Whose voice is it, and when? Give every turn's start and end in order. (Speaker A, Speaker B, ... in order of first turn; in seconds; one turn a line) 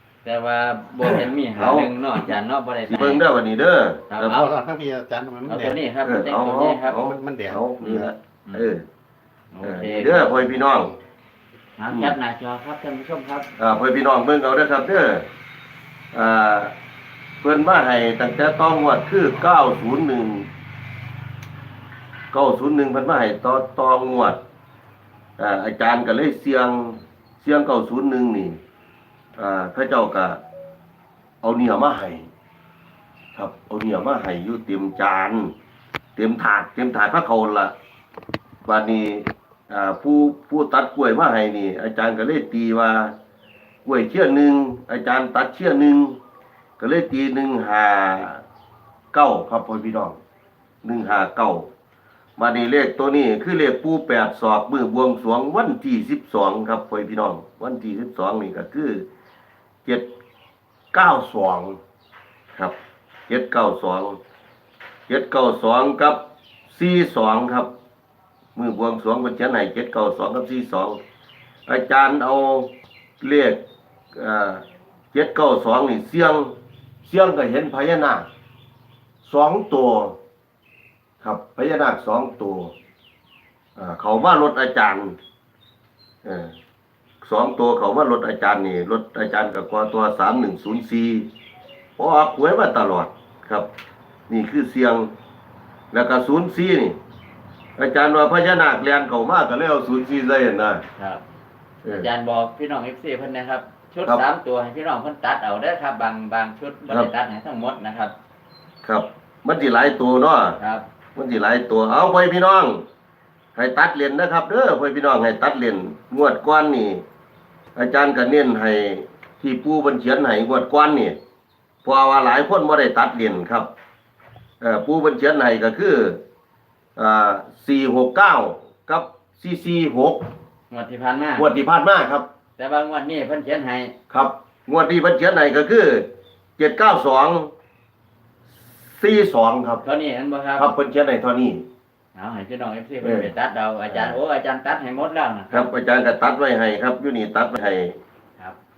Speaker A: 0.2-3.2
Speaker B: 1.1-1.9
Speaker B: 2.9-4.4
Speaker A: 4.1-4.5
Speaker C: 4.2-5.8
Speaker A: 5.5-7.0
Speaker B: 6.0-8.8
Speaker C: 6.9-8.1
Speaker A: 7.8-8.7
Speaker A: 9.5-10.5
Speaker B: 9.6-10.9
Speaker A: 11.8-13.5
Speaker B: 13.6-15.3
Speaker B: 16.1-16.7
Speaker B: 17.4-20.5
Speaker B: 22.3-24.4
Speaker B: 25.4-28.6
Speaker B: 29.4-30.4
Speaker B: 31.4-32.3
Speaker B: 33.3-35.5
Speaker B: 36.1-37.7
Speaker B: 38.6-43.1
Speaker B: 43.8-46.2
Speaker B: 46.8-48.4
Speaker B: 49.1-50.2
Speaker B: 50.8-51.7
Speaker B: 52.4-59.0
Speaker B: 60.9-61.8
Speaker B: 63.3-64.2
Speaker B: 65.1-67.7
Speaker B: 68.5-71.0
Speaker B: 71.7-78.3
Speaker B: 79.2-80.2
Speaker B: 81.2-82.7
Speaker B: 83.8-85.2
Speaker B: 86.2-86.5
Speaker B: 87.2-91.3
Speaker B: 92.0-93.7
Speaker B: 94.3-95.1
Speaker B: 95.9-97.0
Speaker B: 97.8-100.8
Speaker A: 101.0-101.2
Speaker B: 101.8-102.1
Speaker A: 101.9-108.1
Speaker B: 108.8-110.6
Speaker A: 110.6-110.8
Speaker B: 111.1-112.8
Speaker B: 113.5-117.0
Speaker B: 117.7-121.2
Speaker B: 121.8-123.7
Speaker B: 124.6-126.2
Speaker B: 127.0-130.3
Speaker A: 130.7-131.5
Speaker B: 131.4-132.3
Speaker A: 132.6-133.9
Speaker B: 134.1-137.5
Speaker B: 138.6-139.8
Speaker A: 139.8-140.7
Speaker B: 140.6-141.7
Speaker A: 142.1-145.7
Speaker B: 143.0-143.3
Speaker B: 143.9-144.2
Speaker B: 145.5-148.0